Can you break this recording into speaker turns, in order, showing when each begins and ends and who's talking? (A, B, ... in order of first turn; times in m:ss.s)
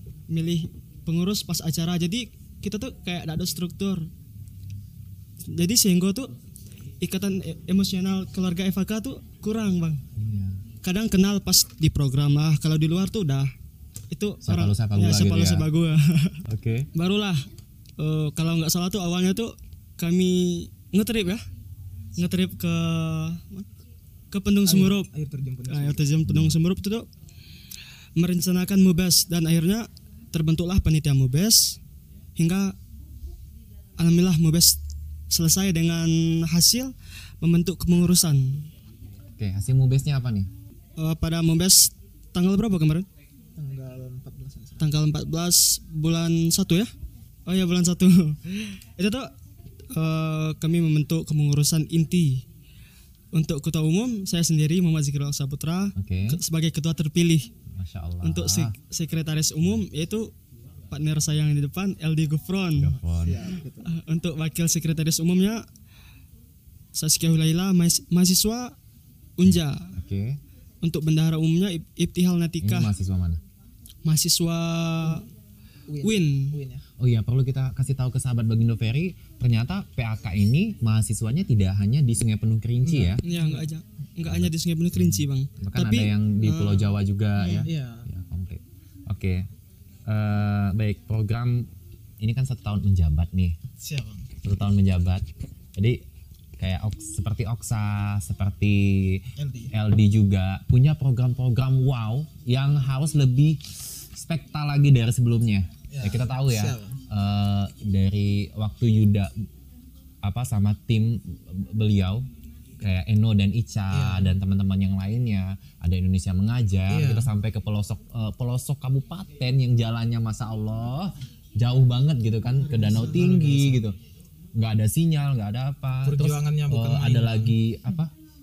0:00.3-0:04.1 A
0:05.5-0:06.3 A
0:07.0-0:10.0 A
0:10.2-0:10.6 B
0:10.8-0:13.5 A
0:14.1-0:16.4 A
0:14.4-0:15.7 B
0:16.5-0:16.9 B
0:16.9-0:17.4 A
0:18.0-0:21.4 A
0:22.2-0:23.7 A
0:24.3-0:25.1 A
0:24.6-0:26.1 C
0:25.7-0:27.1 A
0:26.2-0:26.5 B
0:28.2-0:31.8 A
0:32.4-0:32.8 A
0:34.0-0:34.8 A
0:35.3-0:38.7 A
0:39.4-0:40.5 B
0:41.0-0:43.1 A
0:43.6-0:44.9 C
0:44.8-0:46.9 A
0:47.4-0:49.3 A
0:49.9-0:52.4 A
0:53.3-0:57.5 A
0:56.0-0:56.4 B
0:57.7-0:58.7 B
0:58.2-1:00.3 A
1:00.9-1:03.0 A
1:02.8-1:03.5 B
1:03.1-1:04.0 C
1:03.8-1:05.6 A
1:06.9-1:08.8 A
1:09.4-1:09.9 A
1:09.4-1:10.4 B
1:10.8-1:12.9 A
1:12.6-1:13.4 B
1:14.0-1:15.3 A
1:15.9-1:16.8 C
1:16.0-1:16.6 A
1:17.0-1:23.2 B
1:22.8-1:23.7 C
1:23.2-1:27.7 A
1:24.2-1:29.5 B
1:27.6-1:28.1 C
1:30.1-1:31.7 B
1:32.2-1:33.6 B
1:33.8-1:34.3 C
1:34.4-1:36.0 B
1:36.6-1:49.3 B
1:39.4-1:39.7 C
1:45.9-1:47.0 C
1:50.2-1:52.3 B
1:52.8-2:04.0 B
1:53.9-1:54.3 C
1:56.9-1:57.3 C
2:02.6-2:03.8 C
2:04.5-2:08.1 B
2:06.0-2:07.6 C